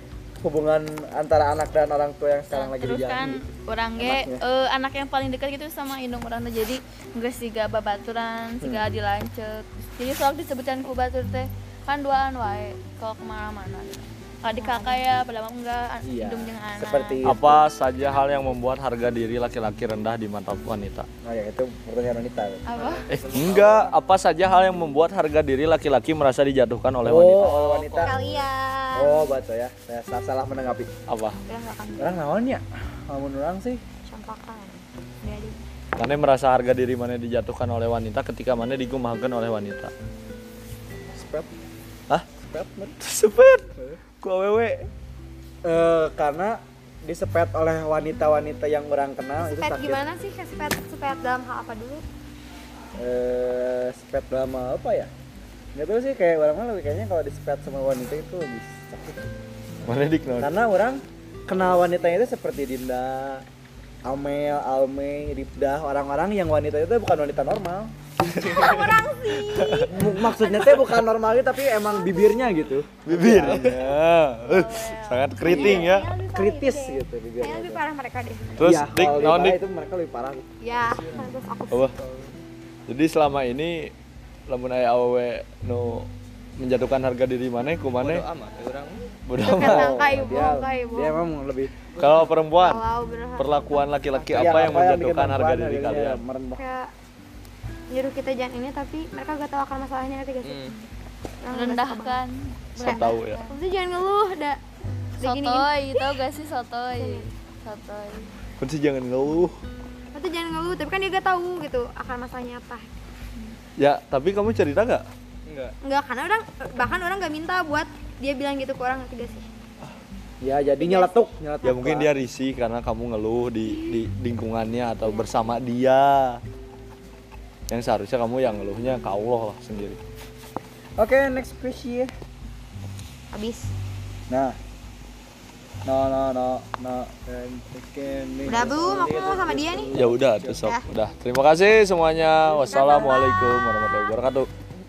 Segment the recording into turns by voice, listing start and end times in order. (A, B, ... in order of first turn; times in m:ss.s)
0:00.4-0:03.4 A
0:02.5-0:17.2 B
0:04.0-0:04.4 A
0:08.6-0:08.9 A
0:14.5-0:15.0 C
0:16.0-0:17.6 A
0:17.2-0:21.1 D
0:21.2-0:22.6 A
0:22.6-0:23.1 B
0:22.7-0:23.9 E
0:23.1-0:28.1 D
0:27.0-0:28.2 A
0:28.0-0:29.3 C
0:29.0-0:30.9 A
0:31.1-0:31.4 D
0:31.4-0:32.2 C
0:32.0-0:33.8 A
0:34.0-0:35.6 C
0:36.0-0:39.9 D
0:41.1-0:41.5 A
0:42.3-0:43.0 A
0:43.0-0:43.7 D
0:44.2-0:44.9 D
0:45.6-0:50.0 A
0:49.4-0:52.0 C
0:53.0-0:55.1 A
0:55.7-0:59.3 A
0:59.8-1:00.5 D
1:00.4-1:03.4 A
1:04.0-1:07.9 A
1:08.4-1:10.9 C
1:08.4-1:08.9 D
1:09.4-1:09.9 D
1:09.8-1:13.8 A
1:11.8-1:12.4 C
1:13.0-1:16.1 D
1:13.3-1:13.8 E
1:14.4-1:16.2 B
1:15.4-1:18.6 C
1:16.3-1:17.8 A
1:18.6-1:19.6 D
1:18.6-1:20.5 A
1:20.6-1:21.9 C
1:20.9-1:21.3 E
1:21.9-1:22.4 E
1:22.9-1:23.9 D
1:24.5-1:28.2 D
1:28.0-1:29.1 E
1:29.2-1:30.4 D
1:29.4-1:31.2 C
1:29.5-1:31.7 A
1:31.9-1:32.3 E
1:32.0-1:32.8 D
1:32.6-1:33.9 C
1:33.4-1:36.2 D
1:34.1-1:34.8 E
1:34.3-1:36.6 A
1:36.5-1:36.9 C
1:37.9-1:40.8 C
1:40.4-1:40.7 E
1:41.4-1:42.2 C
1:41.5-1:43.6 B
1:42.8-1:43.4 D
1:42.8-1:44.6 C
1:45.2-1:46.2 C
1:45.2-1:48.3 B
1:47.0-1:47.3 C
1:48.6-1:49.6 D
1:50.1-1:52.9 C
1:53.8-1:55.0 D
1:55.5-1:55.7 E
1:55.8-1:59.4 C
2:00.4-2:02.1 A
2:00.8-2:01.3 C
2:01.6-2:06.4 D
2:05.0-2:05.5 C
2:07.7-2:10.0 D
2:11.0-2:12.1 A
2:13.3-2:13.7 C
2:14.3-2:14.6 A
2:15.8-2:20.7 A
2:18.4-2:19.9 C
2:19.9-2:24.5 D
2:20.6-2:20.8 C
2:22.7-2:23.4 C